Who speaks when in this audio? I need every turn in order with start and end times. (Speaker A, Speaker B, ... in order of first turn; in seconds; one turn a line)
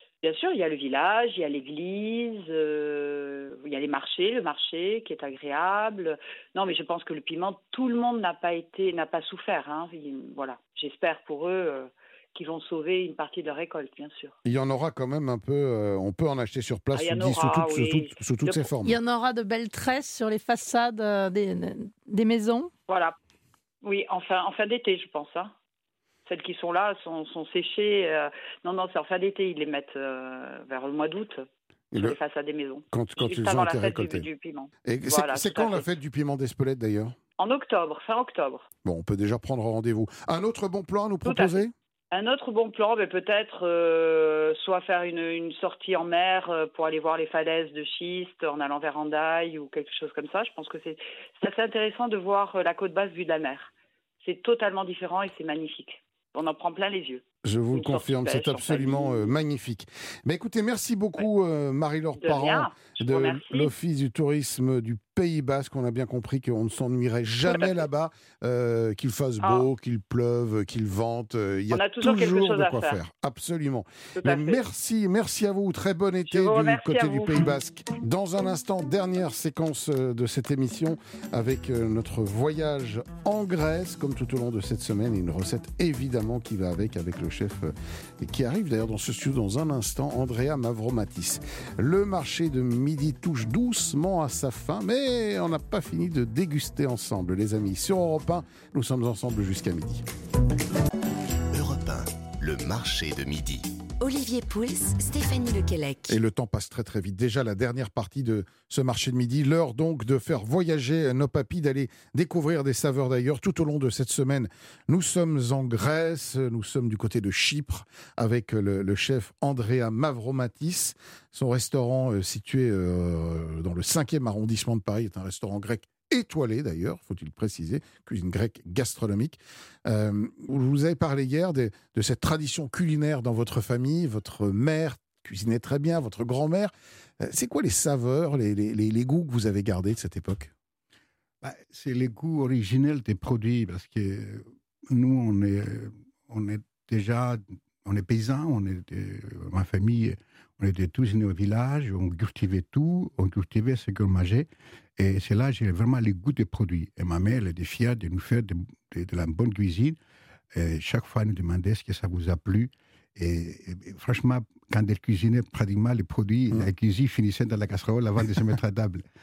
Speaker A: 0.2-14.3
Speaker B: 14.4-19.0
Speaker A: 16.9-18.7
Speaker C: 18.9-22.7
Speaker A: 22.9-23.1
Speaker A: 23.8-25.6
Speaker A: 26.3-35.9
Speaker B: 31.9-32.2
Speaker B: 32.9-34.3
Speaker B: 34.9-37.2
Speaker A: 37.4-38.7
Speaker B: 38.8-41.7
Speaker A: 41.2-53.7
Speaker A: 54.2-59.3
Speaker B: 57.4-100.1
Speaker A: 62.2-63.7
Speaker A: 67.5-67.8
Speaker A: 69.4-69.7
Speaker A: 71.7-73.0
Speaker A: 74.2-74.6
Speaker A: 76.3-77.5
Speaker D: 101.5-103.7
Speaker E: 104.0-106.2
Speaker B: 106.1-140.5
Speaker F: 141.4-160.0
Speaker F: 160.5-169.0